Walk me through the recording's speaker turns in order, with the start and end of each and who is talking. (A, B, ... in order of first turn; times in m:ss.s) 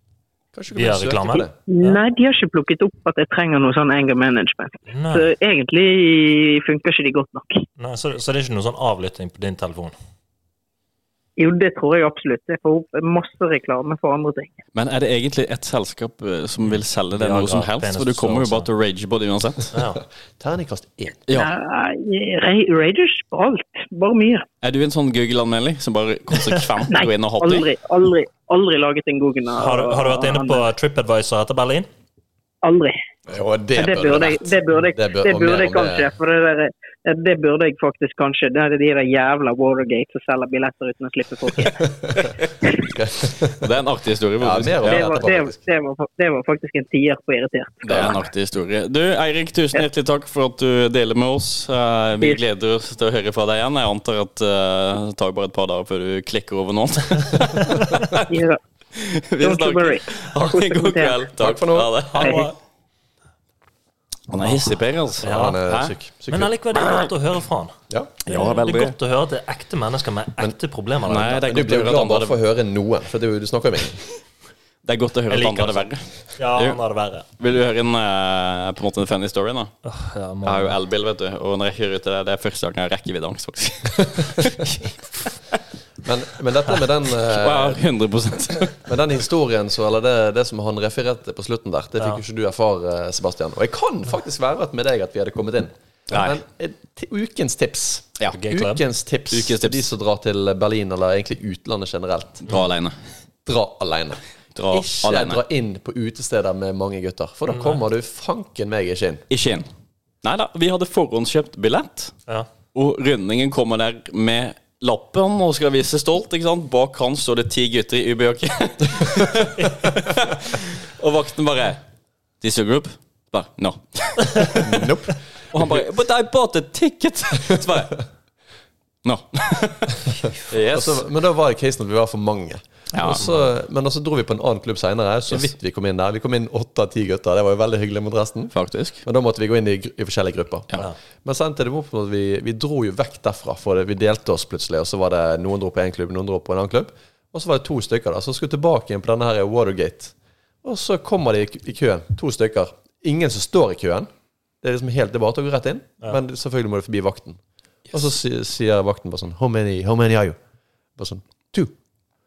0:00.5-0:01.5 A
0:00.7-0:02.0 B
0:01.7-0:07.6 C
0:04.9-0:05.3 B
0:07.8-0:10.0 B
0:11.4-0:14.6 C
0:14.8-0:19.7 D
0:16.7-0:18.7 B
0:19.7-0:20.0 B
0:20.4-0:21.2 A
0:21.3-0:24.5 C
0:24.6-0:27.7 D
0:26.9-0:30.7 C
0:29.6-0:31.9 B
0:32.6-0:33.0 C
0:33.3-0:36.1 A
0:33.8-0:42.9 C
0:42.0-0:43.7 A
0:43.6-0:45.2 D
0:44.4-0:45.6 A
0:44.8-0:48.1 C
0:47.8-0:58.3 D
0:57.6-0:57.9 B
0:58.3-0:58.6 C
0:59.0-1:02.4 D
0:59.4-1:01.2 C
1:01.4-1:02.0 A
1:02.1-1:02.6 B
1:02.2-1:02.5 C
1:04.3-1:06.0 D
1:05.2-1:05.6 B
1:05.2-1:06.5 A
1:06.3-1:07.8 B
1:08.3-1:08.9 D
1:08.3-1:11.5 B
1:11.1-1:12.4 D
1:11.4-1:14.0 A
1:14.8-1:16.0 D
1:15.3-1:17.3 B
1:17.4-1:19.7 D
1:19.8-1:20.8 B
1:20.4-1:24.9 D
1:26.0-1:27.8 A
1:27.2-1:28.8 D
1:28.8-1:42.5 A
1:36.1-1:36.4 D
1:38.3-1:38.8 B
1:39.3-1:39.9 D
1:42.5-1:43.0 D
1:43.5-1:49.2 A
1:44.6-1:45.4 D
1:47.5-1:47.8 B
1:49.3-1:49.7 D
1:50.2-1:52.2 D
1:52.7-2:01.8 D
2:02.4-2:04.9 D
2:04.6-2:05.8 A
2:05.5-2:08.0 D
2:09.0-2:11.0 D
2:10.7-2:34.1 A
2:12.9-2:13.3 D
2:13.2-2:13.5 B
2:18.6-2:19.0 D
2:34.6-2:37.4 A
2:37.9-2:40.4 A
2:41.0-2:41.7 A